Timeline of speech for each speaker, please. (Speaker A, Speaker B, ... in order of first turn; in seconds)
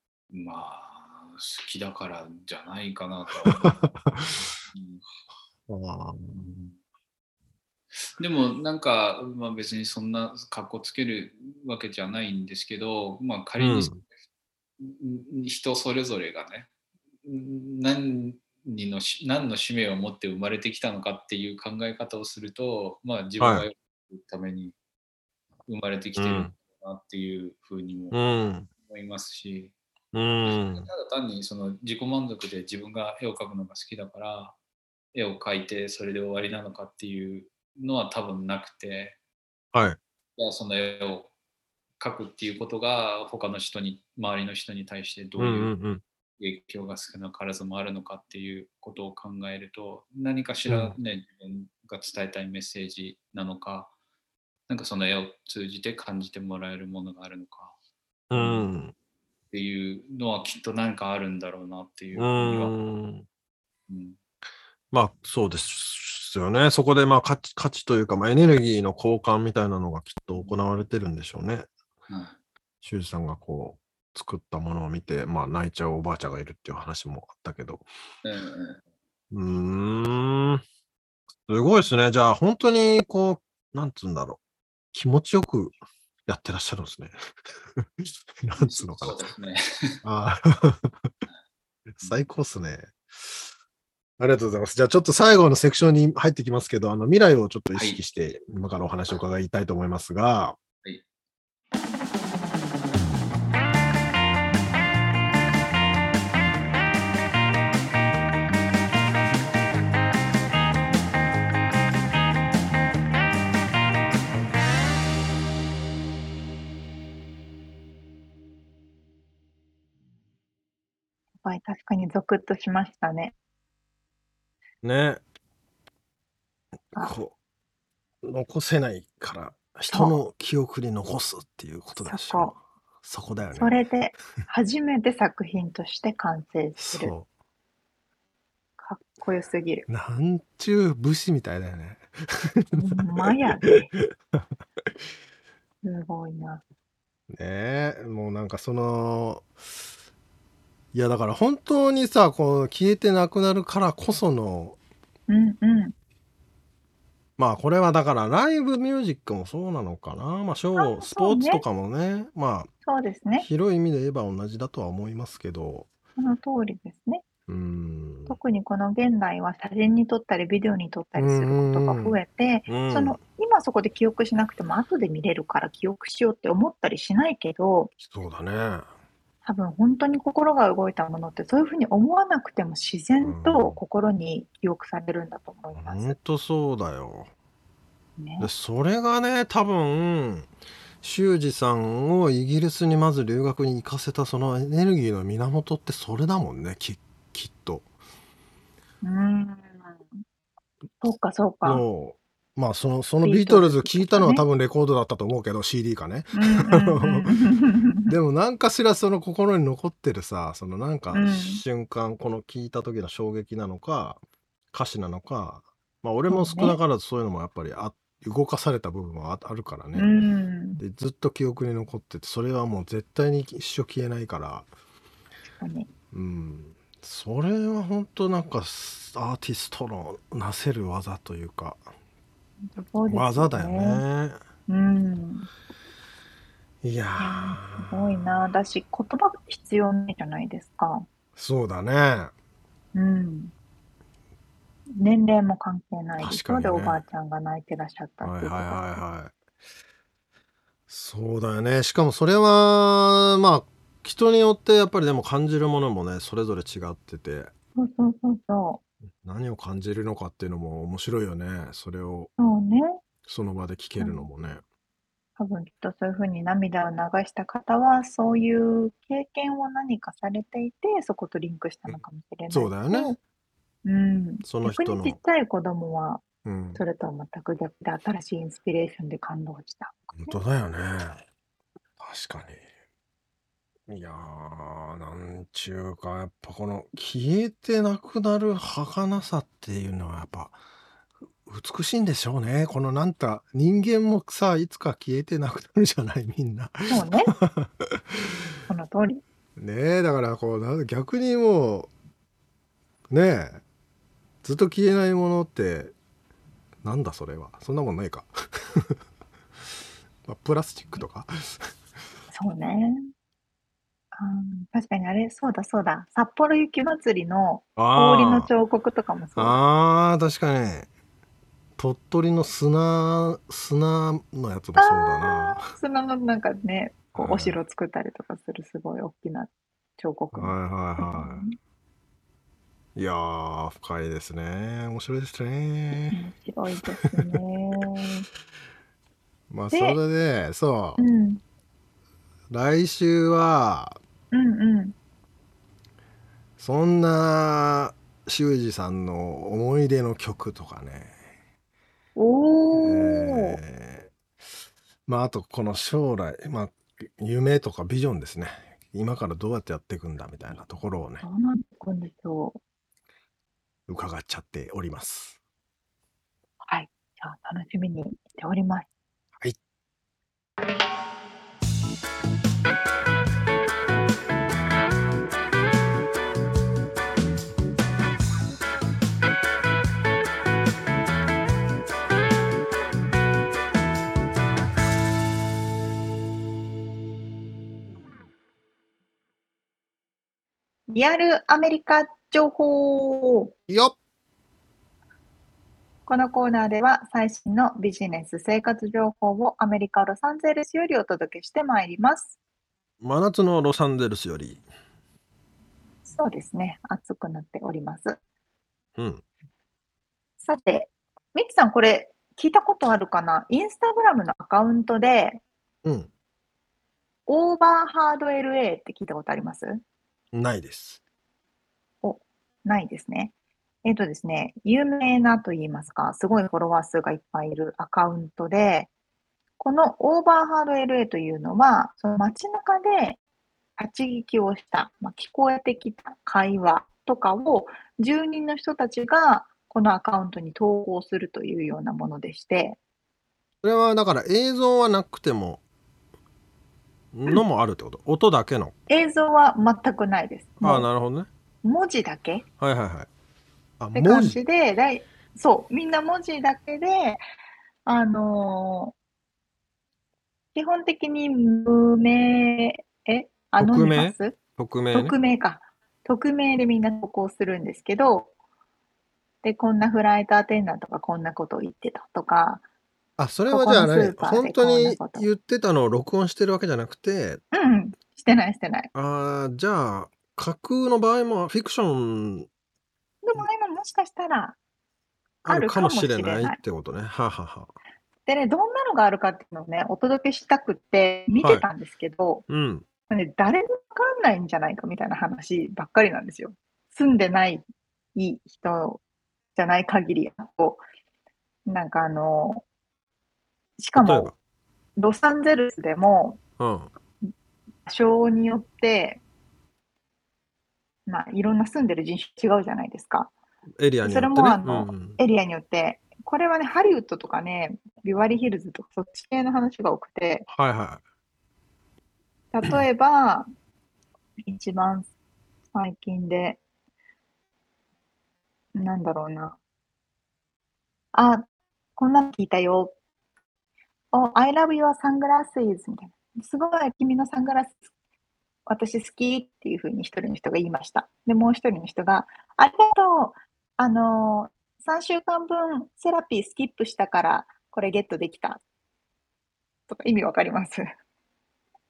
Speaker A: 0.3-5.0, 6.3-6.7, 8.2-14.1, 14.8-16.7, 17.2-24.8, 25.7-29.7, 30.4-34.6, 35.1-39.2, 40.4-41.3, 42.0-45.7, 46.4-53.9, 54.7-57.7, 58.3-58.7, 59.5-62.8, 63.9-64.2, 72.1-72.4, 78.2-78.8, 88.6-90.0, 97.7-98.0
Speaker B: 3.5-4.4, 5.7-6.5, 13.6-14.0, 23.4-23.6, 26.1-26.5, 28.1-28.7, 30.1-30.9, 39.7-40.0, 45.4-46.0, 50.7-51.0, 58.3-58.9, 62.1-63.2, 64.9-71.7, 72.8-77.8, 79.3-80.6, 81.5-84.4, 84.9-85.7, 86.3-89.2, 90.0-91.1, 92.0-93.4, 94.2-100.6, 124.8-125.2, 127.0-127.3, 128.2-133.8, 136.8-137.3, 139.9-144.5, 147.3-149.5, 150.9-154.8, 157.4-162.7, 163.4-165.9, 167.5-168.4, 171.2-173.2, 178.0-178.9, 183.2-183.8, 185.7-187.3, 188.4-190.5, 191.0-197.8, 201.6-207.4, 208.0-214.2, 214.7-220.1, 220.8-224.7, 226.1-231.8, 233.1-234.4, 236.8-238.3, 241.3-242.3, 246.2-247.0, 248.2-249.3, 250.9-257.5, 259.2-262.3, 263.2-264.6, 271.9-273.1, 274.4-275.2, 276.4-276.8, 280.1-281.2, 282.0-282.6, 283.9-290.6, 291.4-298.3, 299.6-301.9, 303.1-303.6, 304.4-305.9, 306.8-308.9, 310.2-311.7, 317.8-318.5, 319.4-320.9, 321.8-325.7, 327.1-327.6, 330.3-331.4, 332.9-336.2, 339.5-341.0, 342.5-344.0, 346.6-351.1, 352.7-354.1, 355.1-361.2, 363.9-365.4, 393.7-393.9, 403.0-404.6, 409.0-409.2, 415.8-416.1, 420.3-421.0, 443.6-445.6, 447.1-448.7, 450.6-451.3, 452.6-453.1, 453.8-454.4, 463.6-465.1, 473.2-477.4, 478.9-482.5, 485.4-487.7, 491.4-491.6, 492.5-492.8, 503.9-504.4, 506.6-506.9, 513.8-515.2, 520.5-521.0
Speaker C: 121.4-123.3, 129.9-130.2, 132.0-132.5, 133.5-137.1, 138.8-139.8, 142.8-143.9, 145.8-146.6, 155.3-155.9, 160.8-161.6, 162.8-163.4, 166.2-167.2, 168.3-177.9, 179.4-186.1, 188.2-188.5, 199.0-200.2, 201.0-201.8, 203.2-204.4, 206.3-208.2, 211.1-211.6, 216.3-216.8, 219.9-220.8, 225.6-225.9, 232.7-234.0, 234.7-235.5, 237.2-241.1, 242.9-243.5, 245.0-249.0, 257.8-258.8, 262.4-263.0, 264.0-264.2, 265.4-273.2, 273.8-276.2, 276.7-280.4, 296.9-297.3, 298.7-299.2, 312.3-313.0, 314.1-319.6, 324.8-331.5, 336.1-338.3, 339.7-340.0, 341.0-341.4, 344.3-344.9, 352.1-353.6, 361.2-362.6, 366.7-368.9, 390.9-393.5, 396.1-402.4, 406.1-408.2, 410.4-415.4, 417.3-419.8, 422.0-423.3, 423.8-428.9, 429.6-433.2, 433.8-442.8, 448.9-450.9, 451.6-452.4, 453.9-457.2, 457.9-458.9, 460.5-464.4, 464.9-468.3, 469.4-472.6, 473.5-475.3, 477.5-478.9, 483.2-484.6, 485.4-486.6, 488.2-492.4, 493.1-497.6, 498.1-499.0, 499.5-500.8, 501.6-502.6, 503.8-504.3, 505.0-506.4, 507.9-509.2, 511.1-513.3, 514.0-520.5, 522.5-523.5, 524.4-525.1, 525.7-526.6, 528.7-529.6, 531.1-531.5, 532.0-532.9, 534.1-537.8, 538.7-548.6, 549.9-550.8